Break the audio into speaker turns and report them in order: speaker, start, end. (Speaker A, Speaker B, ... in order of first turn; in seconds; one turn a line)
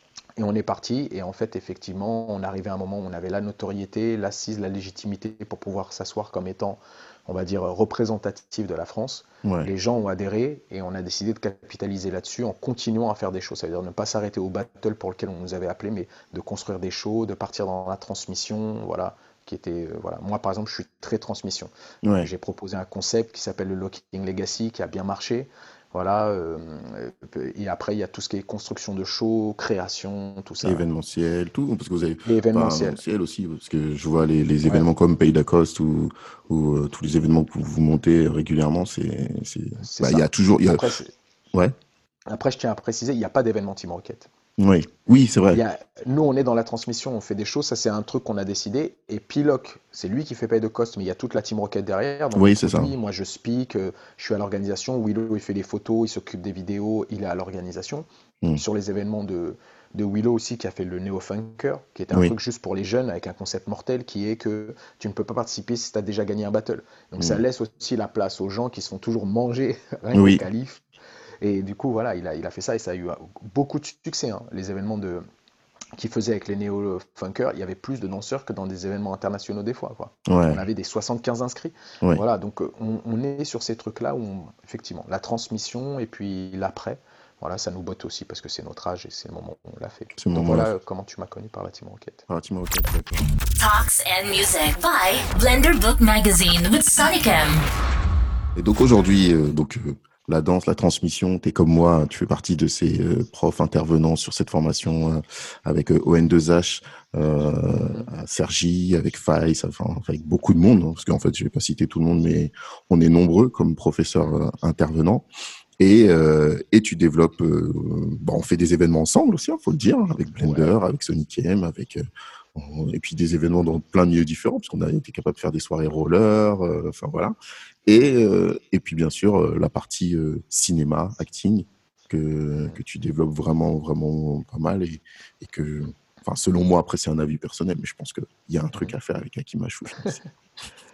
Speaker A: 0.4-30.8
Speaker B: 9.4-9.7
Speaker B: 22.0-22.3
Speaker B: 30.6-40.8
Speaker A: 32.2-33.0
Speaker A: 39.8-41.1
Speaker A: 42.3-44.3
Speaker B: 44.6-45.6
Speaker A: 45.5-70.8
Speaker B: 52.3-52.9
Speaker B: 70.1-70.4
Speaker A: 71.4-75.2
Speaker A: 76.0-92.2
Speaker B: 80.3-80.6
Speaker B: 90.2-90.7
Speaker B: 92.3-93.3
Speaker C: 93.5-97.7
Speaker B: 98.5-115.2
Speaker A: 107.7-108.1
Speaker B: 115.8-122.0
Speaker A: 120.4-120.7
Speaker B: 122.5-127.3
Speaker B: 127.8-140.2